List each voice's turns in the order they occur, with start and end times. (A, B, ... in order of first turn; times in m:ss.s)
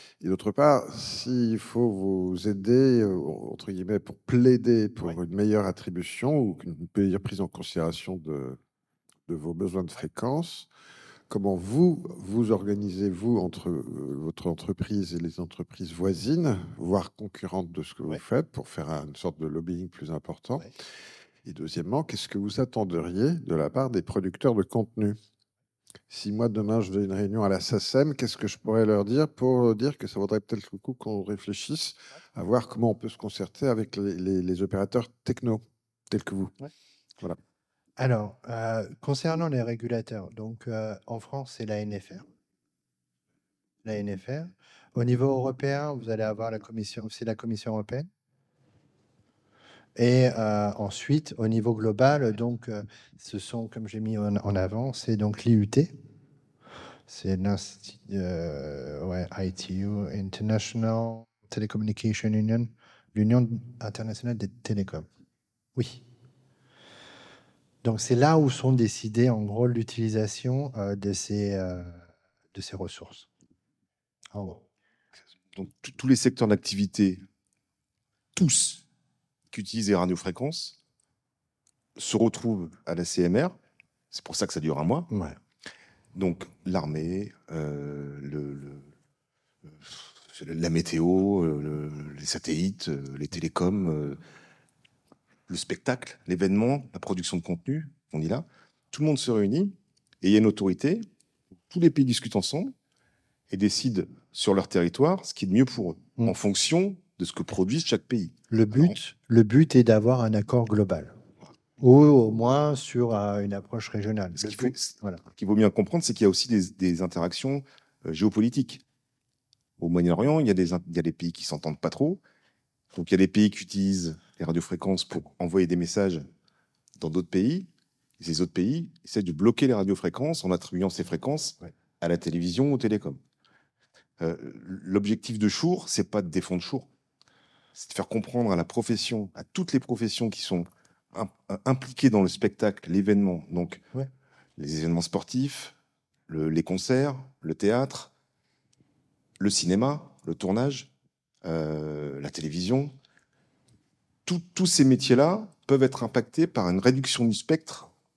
0:00.2-0:08.6 A
0:09.3-0:10.7 A
0:11.3-0:20.7 A
0:21.4-0:25.2 A
0:26.1-0:36.6 A
0:38.0-0:42.3 B
0:43.8-0:48.1 B
0:50.0-0:55.9 B
0:57.1-1:05.1 B
1:05.8-1:06.0 B
1:07.8-1:12.0 B
1:12.5-1:13.3 B
1:14.3-1:14.6 B
1:15.5-1:17.2 C
1:18.4-1:18.8 C
1:19.5-1:20.8 C
1:22.0-1:23.6 C
1:24.1-1:25.1 C
1:25.1-1:25.4 B
1:26.2-1:28.9 C
1:29.6-1:34.2 C
1:35.5-1:41.1 C
1:41.7-1:42.7 C
1:43.5-1:49.0 C
1:48.5-1:51.2 B
1:51.8-1:55.2 B
1:54.4-1:58.8 C
1:59.8-2:02.2 C
2:02.9-2:06.3 C
2:07.0-2:13.2 C
2:14.2-2:16.9 C
2:17.7-2:23.9 C
2:24.6-2:25.8 C
2:26.3-2:28.1 C
2:29.4-2:30.9 C
2:31.4-2:33.0 C
2:34.3-2:37.9 C